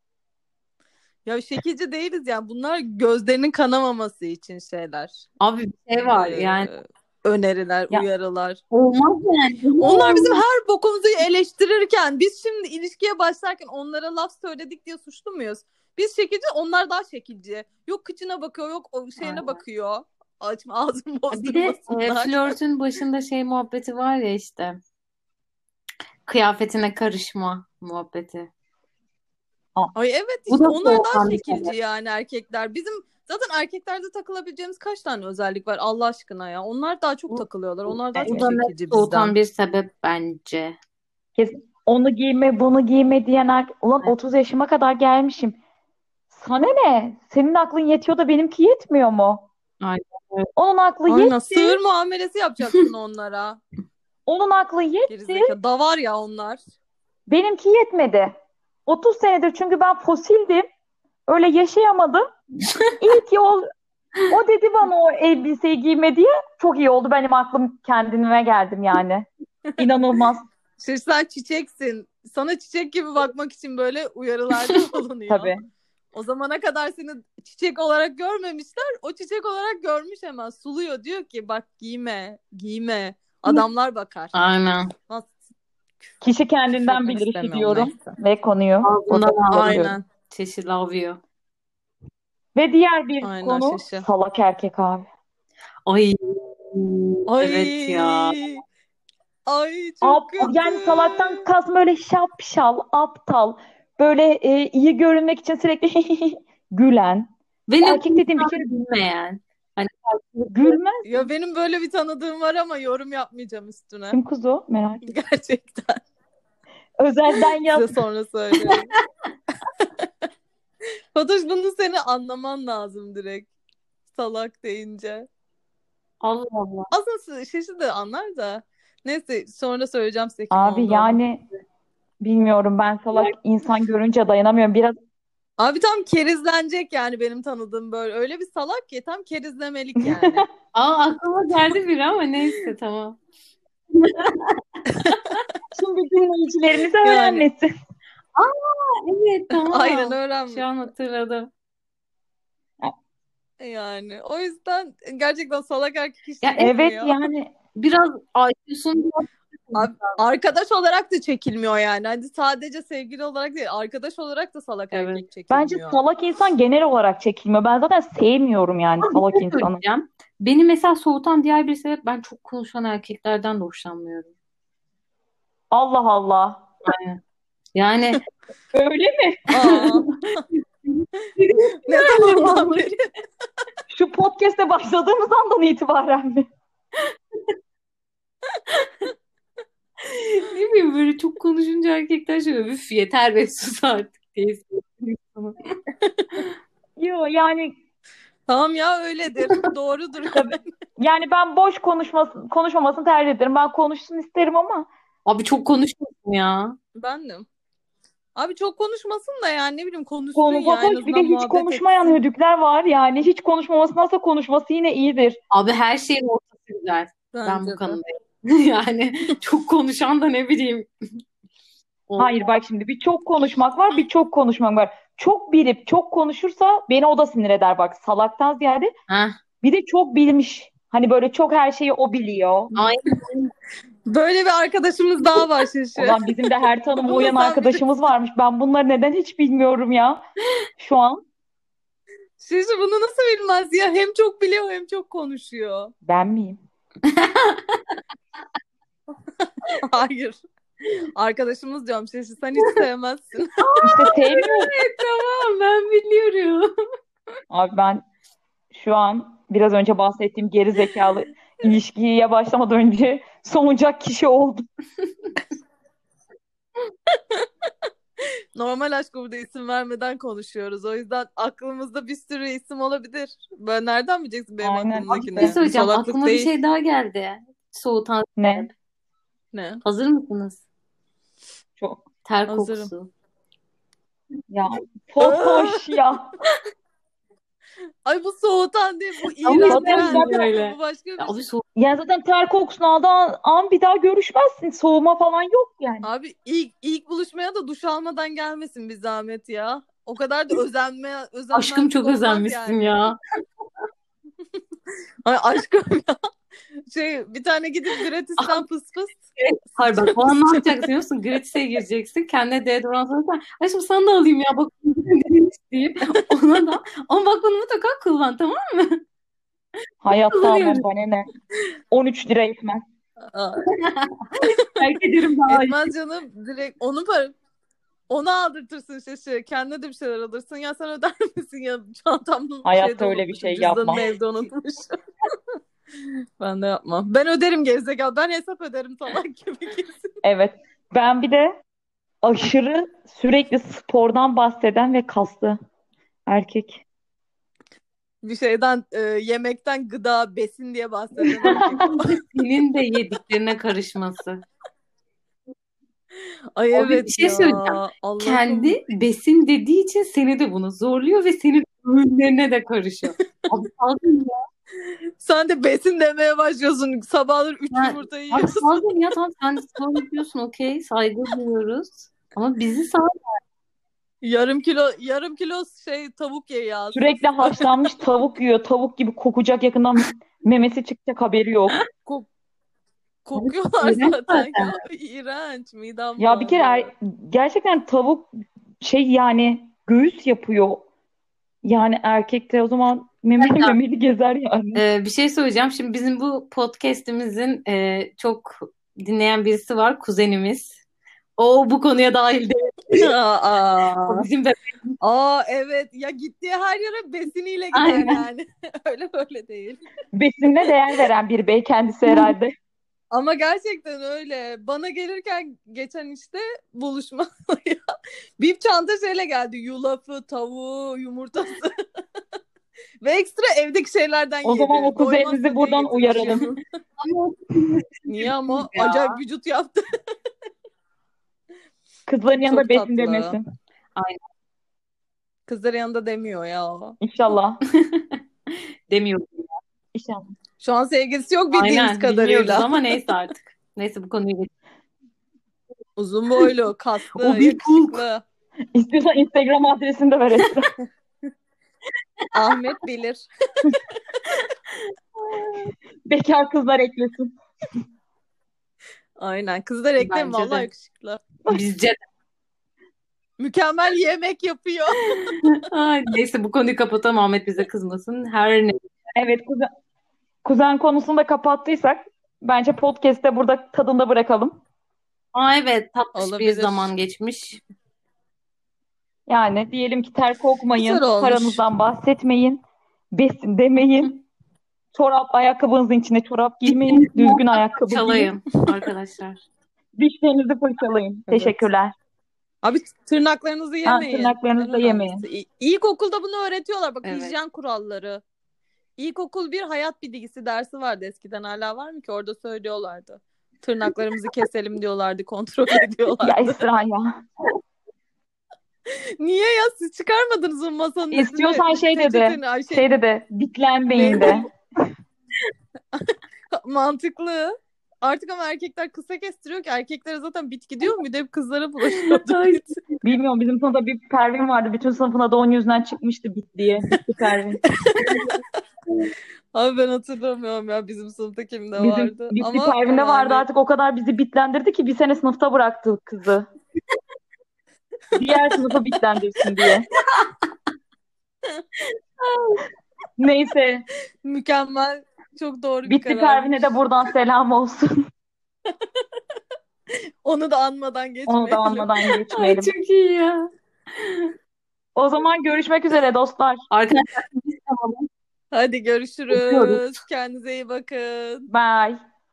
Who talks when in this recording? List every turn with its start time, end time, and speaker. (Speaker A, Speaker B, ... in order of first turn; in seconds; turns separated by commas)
Speaker A: 1.2-5.2, Speaker B: 5.4-6.7, Speaker A: 6.0-8.6, Speaker B: 8.7-10.4, Speaker A: 9.8-22.5, Speaker B: 19.2-19.6, Speaker B: 21.3-24.8, Speaker B: 26.2-28.5, Speaker A: 29.9-39.3, Speaker B: 30.5-31.7, Speaker C: 38.1-38.5, Speaker B: 38.2-40.7, Speaker C: 41.4-45.6, Speaker C: 46.3-49.5, Speaker B: 49.8-50.5, Speaker C: 50.5-51.8, Speaker A: 51.1-53.6, Speaker C: 54.3-55.5, Speaker A: 55.1-56.6, Speaker C: 57.3-58.3, Speaker C: 58.9-60.6, Speaker C: 61.3-62.2, Speaker C: 63.0-63.6, Speaker C: 64.3-70.4, Speaker A: 70.8-75.5, Speaker C: 75.3-75.6, Speaker A: 76.1-84.3, Speaker B: 84.3-84.9, Speaker A: 85.1-85.4, Speaker C: 86.2-89.9, Speaker A: 86.7-88.2, Speaker B: 88.8-91.2, Speaker A: 89.3-90.0, Speaker C: 92.5-95.0, Speaker A: 93.2-94.0, Speaker B: 95.8-98.4, Speaker A: 97.3-98.6, Speaker A: 99.5-101.4, Speaker C: 100.0-107.3, Speaker B: 107.7-110.8, Speaker C: 107.8-108.7, Speaker C: 110.5-111.2, Speaker A: 111.0-114.2, Speaker C: 114.1-115.1, Speaker A: 115.0-116.0, Speaker C: 117.0-117.9, Speaker A: 117.7-119.0, Speaker A: 121.1-123.5, Speaker A: 124.1-125.3, Speaker B: 126.2-126.9, Speaker A: 126.9-131.2, Speaker C: 130.5-131.4, Speaker C: 132.2-134.9, Speaker A: 135.6-140.5, Speaker C: 140.0-140.3, Speaker B: 140.7-143.2, Speaker B: 143.9-144.6, Speaker A: 144.9-145.4, Speaker C: 145.7-147.7, Speaker A: 147.0-147.5, Speaker B: 148.3-151.5, Speaker A: 149.5-150.7, Speaker A: 153.6-157.2, Speaker B: 156.4-156.7, Speaker C: 156.6-157.5, Speaker B: 157.7-160.2, Speaker A: 159.7-166.0, Speaker B: 164.9-165.2, Speaker C: 165.5-169.8, Speaker B: 169.1-174.3, Speaker C: 175.7-176.7, Speaker B: 176.8-177.2, Speaker B: 177.7-178.2, Speaker C: 178.7-179.9, Speaker A: 179.5-180.4, Speaker B: 179.6-179.9, Speaker B: 180.6-182.9, Speaker A: 181.8-183.0, Speaker C: 183.9-186.5, Speaker B: 190.0-195.6, Speaker A: 196.1-196.4, Speaker C: 197.0-197.7, Speaker A: 198.5-200.7, Speaker C: 200.3-204.9, Speaker B: 205.2-206.8, Speaker A: 206.9-207.4, Speaker A: 208.3-212.2, Speaker C: 210.3-215.4, Speaker B: 215.5-220.9, Speaker A: 217.3-218.0, Speaker B: 222.1-222.4, Speaker C: 222.2-228.9, Speaker B: 229.1-229.3, Speaker C: 229.6-232.7, Speaker B: 232.7-233.5, Speaker A: 234.1-236.2, Speaker C: 236.0-240.2, Speaker A: 237.0-237.8, Speaker C: 240.8-241.2, Speaker A: 242.4-245.9, Speaker C: 246.0-246.6, Speaker B: 247.1-247.8, Speaker A: 249.8-250.4, Speaker A: 251.2-253.7, Speaker B: 253.6-256.7, Speaker C: 253.8-254.7, Speaker C: 257.5-258.0, Speaker C: 258.7-264.6, Speaker A: 267.1-267.7, Speaker A: 268.6-276.5, Speaker C: 274.6-275.6, Speaker B: 275.1-278.7, Speaker C: 278.4-278.7, Speaker A: 279.5-279.8, Speaker B: 279.8-280.6, Speaker C: 281.8-282.0, Speaker B: 282.2-283.1, Speaker A: 282.5-282.9, Speaker C: 284.5-286.3, Speaker A: 285.2-286.0, Speaker A: 288.0-291.4, Speaker B: 289.4-291.6, Speaker C: 289.6-290.3, Speaker C: 291.8-296.1, Speaker A: 296.0-302.9, Speaker B: 301.5-303.2, Speaker A: 305.2-306.1, Speaker A: 306.9-309.2, Speaker B: 308.4-308.6, Speaker B: 309.4-319.0, Speaker A: 309.9-310.6, Speaker C: 320.0-321.3, Speaker B: 320.3-320.8, Speaker C: 321.9-322.8, Speaker A: 323.2-323.6, Speaker B: 323.7-325.8, Speaker A: 325.5-327.4, Speaker A: 328.1-334.9, Speaker C: 332.6-334.0, Speaker A: 336.0-340.1, Speaker C: 340.2-341.5, Speaker C: 342.2-345.6, Speaker C: 346.3-346.8, Speaker A: 348.2-352.2, Speaker C: 351.2-351.8, Speaker B: 351.4-354.4, Speaker A: 356.6-358.8, Speaker B: 356.7-364.4, Speaker A: 365.2-368.7, Speaker B: 367.7-373.2, Speaker A: 374.2-377.7, Speaker C: 376.9-381.8, Speaker A: 383.2-386.9, Speaker B: 383.3-384.8, Speaker C: 386.2-390.9, Speaker C: 391.6-394.8, Speaker B: 393.4-393.7, Speaker B: 394.7-400.8, Speaker B: 401.4-403.1, Speaker A: 402.9-404.2, Speaker B: 404.0-404.9, Speaker A: 405.0-409.8, Speaker B: 407.7-408.2, Speaker C: 410.1-412.5, Speaker A: 413.1-417.8, Speaker A: 418.4-421.7, Speaker A: 423.0-426.6, Speaker C: 424.4-426.4, Speaker B: 427.0-429.2, Speaker A: 428.1-429.8, Speaker C: 432.1-433.4, Speaker A: 432.4-433.4, Speaker B: 433.9-434.2, Speaker A: 435.5-437.0, Speaker C: 437.0-437.6, Speaker B: 437.8-438.2, Speaker B: 438.9-439.5, Speaker C: 439.9-440.2, Speaker A: 440.6-442.7, Speaker B: 441.5-444.5, Speaker A: 446.0-448.2, Speaker B: 447.2-448.0, Speaker C: 448.7-450.7, Speaker A: 452.3-453.7, Speaker C: 456.1-457.3, Speaker A: 459.2-461.2, Speaker B: 460.0-460.7, Speaker B: 461.5-462.0, Speaker A: 463.4-465.3, Speaker B: 465.6-468.8, Speaker C: 469.1-469.7, Speaker C: 470.4-474.6, Speaker B: 475.3-477.6, Speaker A: 476.1-476.9, Speaker C: 479.3-482.6, Speaker A: 480.8-481.6, Speaker C: 483.1-484.2, Speaker C: 484.9-488.3, Speaker B: 486.6-489.4, Speaker C: 490.0-491.9, Speaker A: 491.3-491.6, Speaker A: 492.6-498.2, Speaker C: 493.8-495.2, Speaker B: 497.0-497.4, Speaker A: 499.0-506.6, Speaker C: 506.2-507.2, Speaker A: 508.9-512.9, Speaker C: 511.1-514.5, Speaker A: 513.9-514.5, Speaker A: 515.9-522.7, Speaker B: 521.9-523.0, Speaker C: 523.0-527.6, Speaker A: 527.8-528.3, Speaker A: 529.5-533.5, Speaker C: 531.8-536.5, Speaker C: 538.1-539.9, Speaker A: 541.8-542.6, Speaker C: 543.2-543.8, Speaker A: 544.2-546.6, Speaker C: 545.9-547.9, Speaker A: 550.2-552.0, Speaker C: 551.3-552.7, Speaker B: 552.3-554.3, Speaker C: 555.0-556.6, Speaker B: 556.7-558.1, Speaker A: 558.5-561.5, Speaker B: 559.3-559.9, Speaker C: 561.5-562.0